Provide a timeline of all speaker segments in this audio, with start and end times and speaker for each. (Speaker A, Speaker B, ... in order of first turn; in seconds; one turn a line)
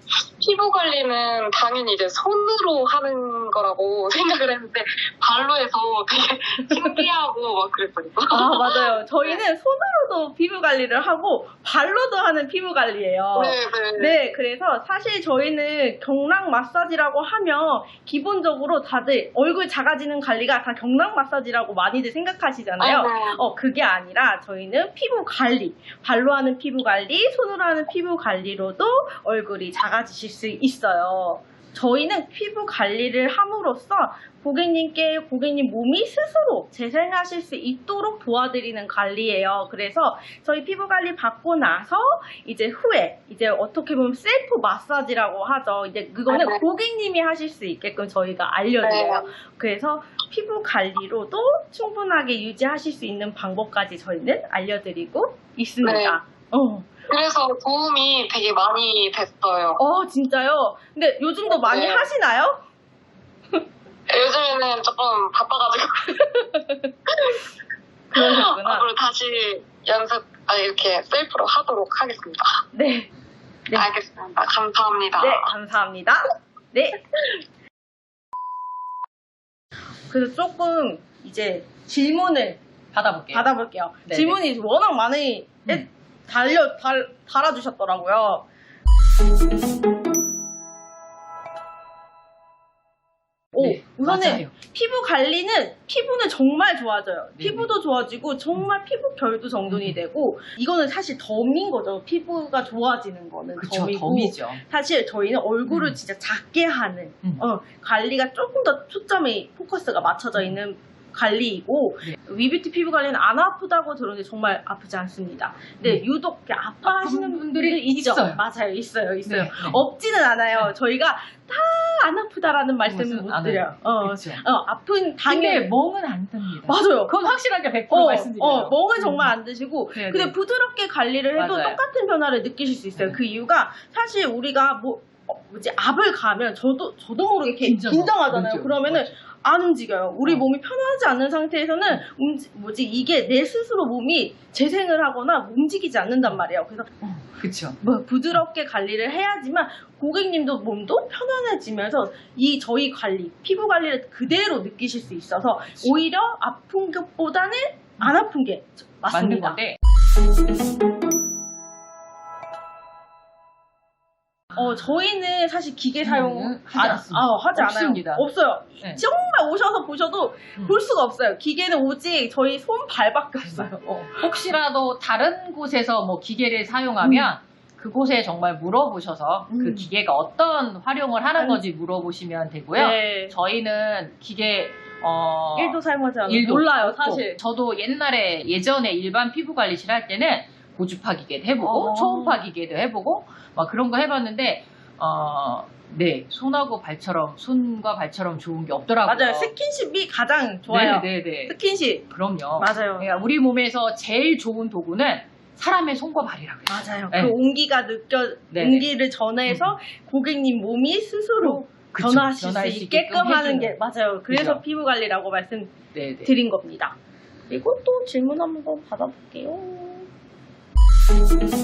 Speaker A: 0.4-9.4
Speaker B: 6.7-7.0
Speaker B: 8.3-57.0
Speaker A: 13.6-14.1
Speaker A: 22.8-23.1
Speaker A: 48.8-49.2
Speaker A: 55.8-56.1
Speaker A: 57.1-59.8
Speaker B: 59.8-62.6
Speaker A: 61.5-62.1
Speaker A: 64.1-66.2
Speaker B: 66.2-66.9
Speaker B: 68.1-68.9
Speaker A: 68.1-72.6
Speaker B: 72.7-73.1
Speaker A: 73.7-75.5
Speaker B: 75.2-77.1
Speaker B: 80.1-82.6
Speaker C: 82.9-83.5
Speaker B: 83.3-88.4
Speaker C: 84.1-84.4
Speaker B: 93.5-125.7
Speaker C: 93.6-94.5
Speaker C: 97.3-97.7
Speaker C: 99.7-100.0
Speaker C: 103.6-104.6
Speaker C: 105.7-106.0
Speaker C: 116.8-118.4
Speaker C: 119.2-119.8
Speaker C: 122.8-124.4
Speaker C: 125.3-129.3
Speaker B: 126.6-127.2
Speaker B: 127.9-146.9
Speaker C: 129.9-130.3
Speaker C: 131.3-131.8
Speaker C: 137.6-139.2
Speaker C: 147.0-147.8
Speaker B: 147.8-159.6
Speaker C: 159.1-159.8
Speaker B: 164.5-174.2
Speaker C: 166.0-168.2
Speaker C: 173.4-199.5
Speaker B: 177.0-177.3
Speaker B: 179.5-179.9
Speaker B: 181.4-181.6
Speaker B: 182.7-183.3
Speaker B: 185.6-187.4
Speaker B: 191.6-192.4
Speaker B: 199.1-203.1
Speaker C: 200.7-201.6
Speaker C: 202.1-207.3
Speaker B: 206.7-215.7
Speaker C: 208.5-208.9
Speaker C: 209.5-209.7
Speaker C: 211.4-213.8
Speaker C: 214.3-214.6
Speaker C: 215.9-216.3
Speaker B: 216.2-216.9
Speaker B: 217.5-220.1